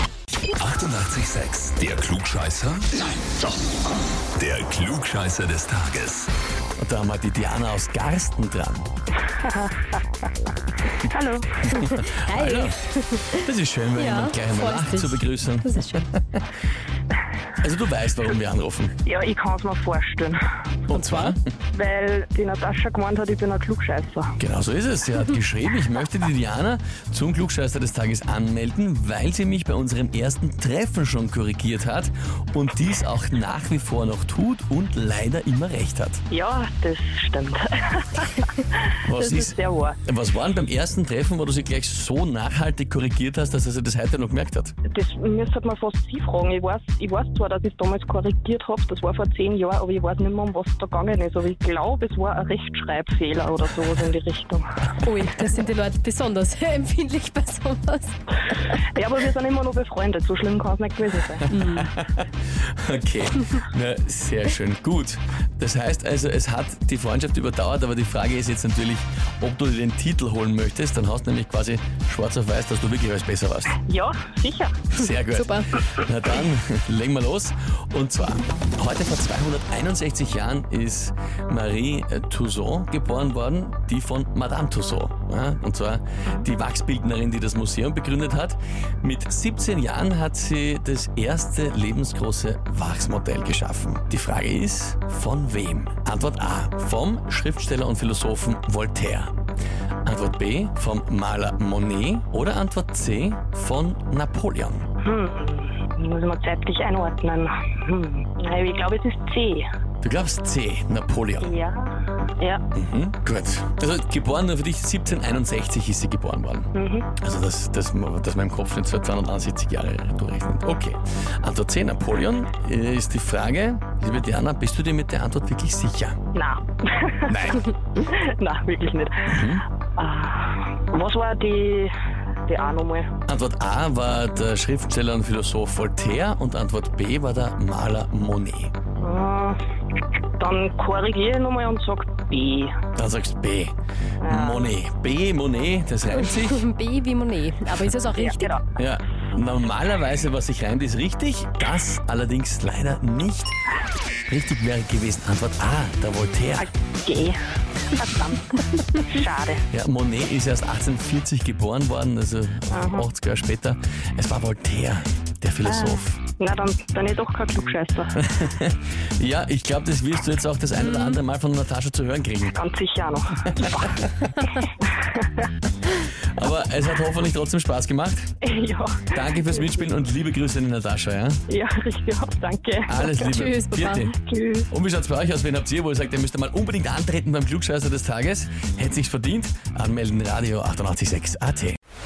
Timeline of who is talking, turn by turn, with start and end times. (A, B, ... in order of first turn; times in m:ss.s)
0:00.6-0:03.4 A
0:04.4-0:06.3 A
0:06.8-0:08.9 B
0:09.3-0:10.0 C
0:11.0-0:11.8 C
0:11.6-0:12.8 B
0:11.8-0:13.4 D
0:13.3-0:16.4 B
0:14.0-0:16.1 D
0:17.6-0:18.9 B
0:19.0-0:20.4 C
0:20.9-0:21.4 B
0:20.9-0:21.4 D
0:21.7-0:24.3 C
0:24.4-0:36.2 B
0:36.3-0:40.0 C
0:39.1-0:44.7 B
0:44.9-0:54.9 C
0:55.0-0:58.1 D
0:58.7-1:01.6 C
1:01.5-1:13.8 B
1:01.5-1:01.9 D
1:13.8-1:14.8 C
1:14.9-1:39.3 B
1:15.3-1:15.8 D
1:40.0-1:44.8 B
1:45.0-1:49.7 C
1:50.0-1:51.5 B
1:51.4-1:52.6 C
1:52.7-2:06.2 B
1:56.7-1:57.1 C
2:06.3-2:09.4 C
2:07.3-2:07.6 B
2:09.3-2:09.6 B
2:10.0-2:11.9 C
2:12.5-2:13.1 C
2:13.3-2:18.7 B
2:19.0-2:19.6 C
2:20.4-2:22.8 C
2:23.0-2:23.7 B
2:24.2-2:24.7 C
2:24.2-2:26.6 B
2:26.1-2:28.5 D
2:28.1-2:28.6 C
2:28.8-2:33.5 B
2:34.2-2:36.7 B
2:36.6-2:37.4 C
2:37.9-2:39.6 C
2:39.7-2:46.2 B
2:42.7-2:43.1 C
2:45.6-2:48.2 C
2:48.2-2:52.6 B
2:50.7-2:51.2 D
2:52.5-2:54.0 C
2:53.5-2:54.2 B
2:54.8-2:55.5 C
2:56.4-2:58.3 B
2:58.4-2:59.9 C
2:59.1-3:01.4 B
3:01.5-3:03.2 C
3:02.8-3:04.1 B
3:03.1-3:04.1 D
3:04.2-3:04.7 C
3:04.7-3:11.8 B